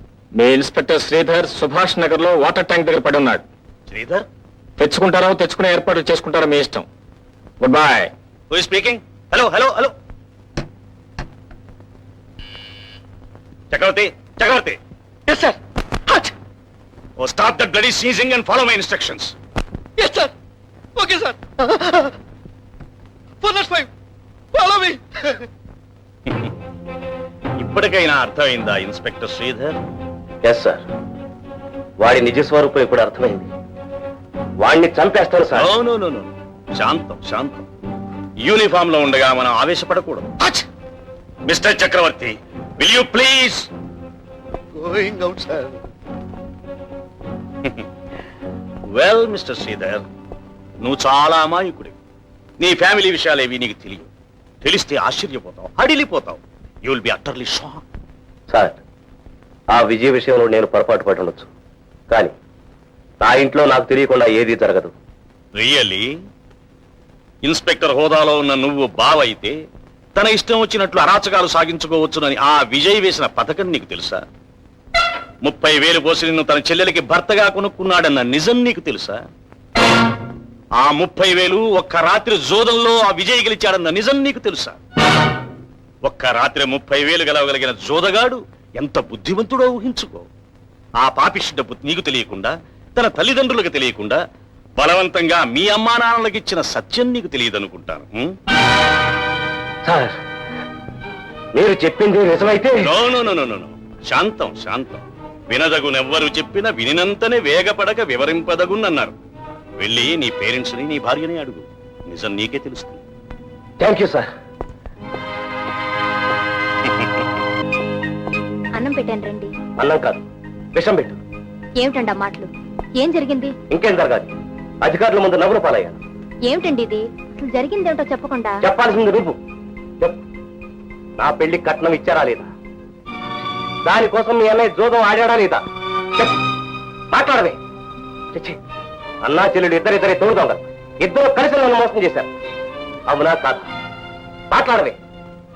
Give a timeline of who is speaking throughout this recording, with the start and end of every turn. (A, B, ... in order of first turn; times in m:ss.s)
0:00.4-0:03.4 A
0:03.9-0:04.2 B
0:04.8-0:06.8 A
0:07.6-0:08.1 A
0:08.5-0:09.9 B
0:13.7-0:14.8 B
0:15.3-0:15.6 C
0:17.2-0:19.3 B
0:20.0-0:20.3 C
0:21.0-0:22.1 C
0:23.4-0:23.9 C
0:24.5-0:25.4 C
0:27.6-0:29.8 B
0:30.4-0:30.8 D
0:32.0-0:33.5 D
0:34.6-0:35.7 D
0:35.5-0:37.7 B
0:38.4-0:40.3 B
0:41.5-0:43.7 B
0:44.8-0:45.2 C
0:48.9-0:50.0 B
0:50.8-0:52.0 B
0:52.6-0:54.1 B
0:54.6-0:57.8 B
0:58.5-0:58.8 D
0:59.7-1:01.5 D
1:03.2-1:04.9 D
1:05.6-1:06.0 B
1:07.4-1:09.6 B
1:10.1-1:14.2 B
1:15.4-1:19.2 B
1:20.8-1:24.8 B
1:26.0-1:30.3 B
1:31.0-1:34.2 B
1:34.8-1:38.3 B
1:39.8-1:40.1 D
1:41.5-1:42.9 D
1:42.8-1:49.2 B
1:49.8-1:53.0 B
1:53.8-1:54.3 D
1:56.9-1:57.2 B
1:58.7-1:59.5 E
1:59.8-2:00.2 D
2:00.7-2:01.2 D
2:01.8-2:03.5 E
2:03.7-2:04.3 D
2:04.8-2:06.0 D
2:06.5-2:08.6 E
2:08.6-2:09.4 D
2:11.2-2:12.5 D
2:13.8-2:15.6 D
2:17.1-2:17.6 D
2:18.3-2:18.6 D
2:19.2-2:22.3 D
2:23.1-2:23.7 D
2:24.5-2:25.0 D